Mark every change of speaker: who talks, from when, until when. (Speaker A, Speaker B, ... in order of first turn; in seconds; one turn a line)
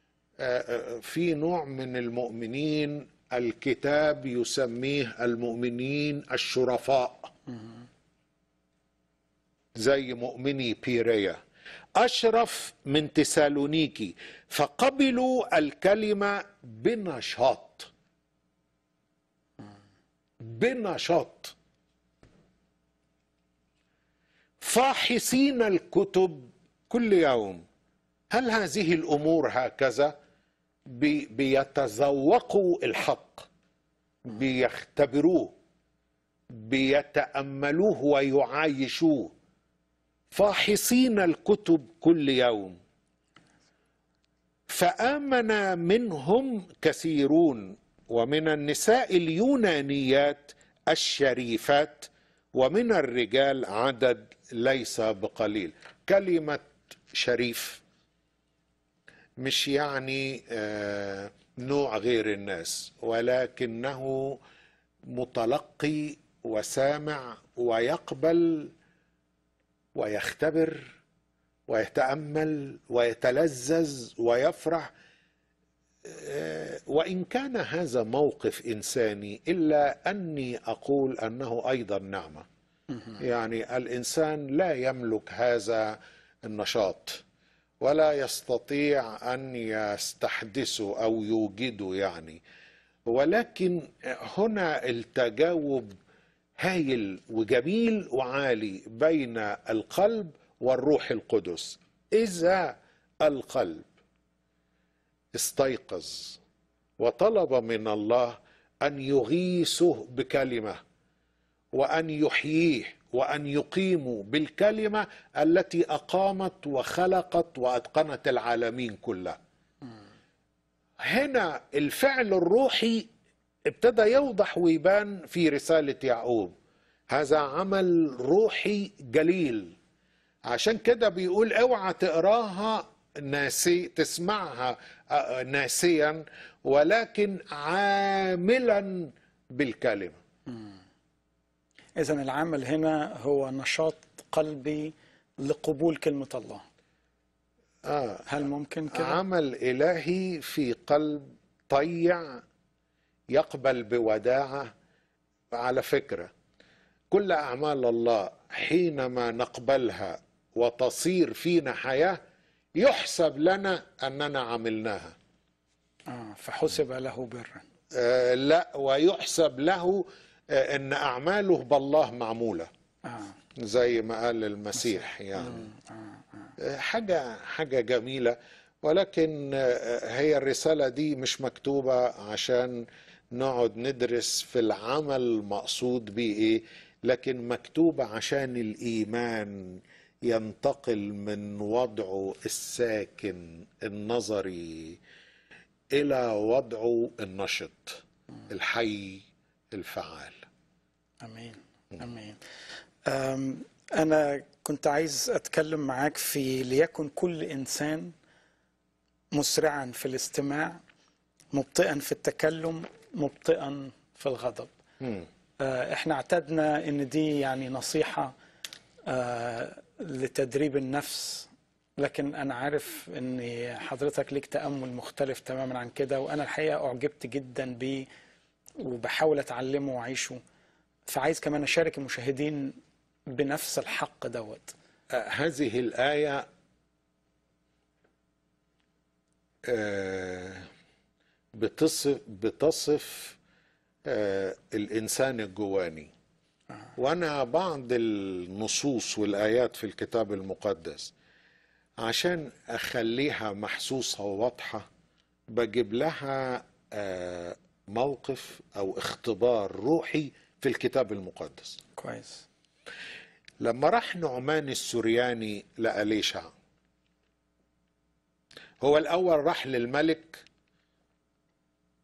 Speaker A: 0.4-7.3
Speaker A: 9.8-11.4
Speaker A: 12.0-17.9
Speaker A: 20.4-21.5
Speaker A: 24.6-27.6
Speaker A: 28.3-30.1
Speaker A: 30.9-33.5
Speaker A: 34.2-35.5
Speaker A: 36.5-39.3
Speaker A: 40.3-42.8
Speaker A: 44.7-57.8
Speaker A: 59.4-64.4
Speaker A: 65.1-68.7
Speaker A: 69.9-70.9
Speaker A: 71.7-74.9
Speaker A: 76.0-82.5
Speaker A: 83.2-87.2
Speaker A: 87.8-92.4
Speaker A: 93.1-95.9
Speaker A: 96.6-103.9
Speaker A: 105.3-106.4
Speaker A: 107.0-110.8
Speaker A: 111.7-119.4
Speaker A: 121.0-123.1
Speaker A: 123.7-126.5
Speaker A: 127.1-129.7
Speaker A: 130.5-140.2
Speaker B: 142.0-146.6
Speaker A: 147.8-148.3
Speaker B: 148.3-149.2
Speaker A: 148.9-152.4
Speaker A: 153.3-154.7
Speaker A: 155.5-156.3
Speaker A: 157.1-162.2
Speaker A: 162.8-165.1
Speaker B: 166.1-167.6
Speaker A: 167.9-172.7
Speaker B: 173.1-173.3
Speaker A: 173.6-175.7
Speaker B: 175.4-175.8
Speaker A: 176.6-195.0
Speaker A: 195.9-200.4
Speaker B: 201.2-202.4
Speaker B: 203.1-208.1
Speaker B: 209.3-210.8
Speaker B: 211.5-214.7
Speaker A: 215.0-215.3
Speaker B: 215.6-218.3
Speaker B: 219.1-228.1
Speaker B: 228.8-230.4
Speaker B: 231.1-232.7
Speaker B: 233.3-234.7
Speaker A: 235.1-236.4
Speaker A: 239.6-240.7
Speaker A: 241.5-243.4
Speaker A: 244.1-246.1
Speaker A: 246.9-251.1
Speaker A: 252.0-254.8
Speaker A: 255.5-261.8
Speaker B: 262.0-262.4
Speaker A: 263.6-266.5
Speaker A: 268.8-270.4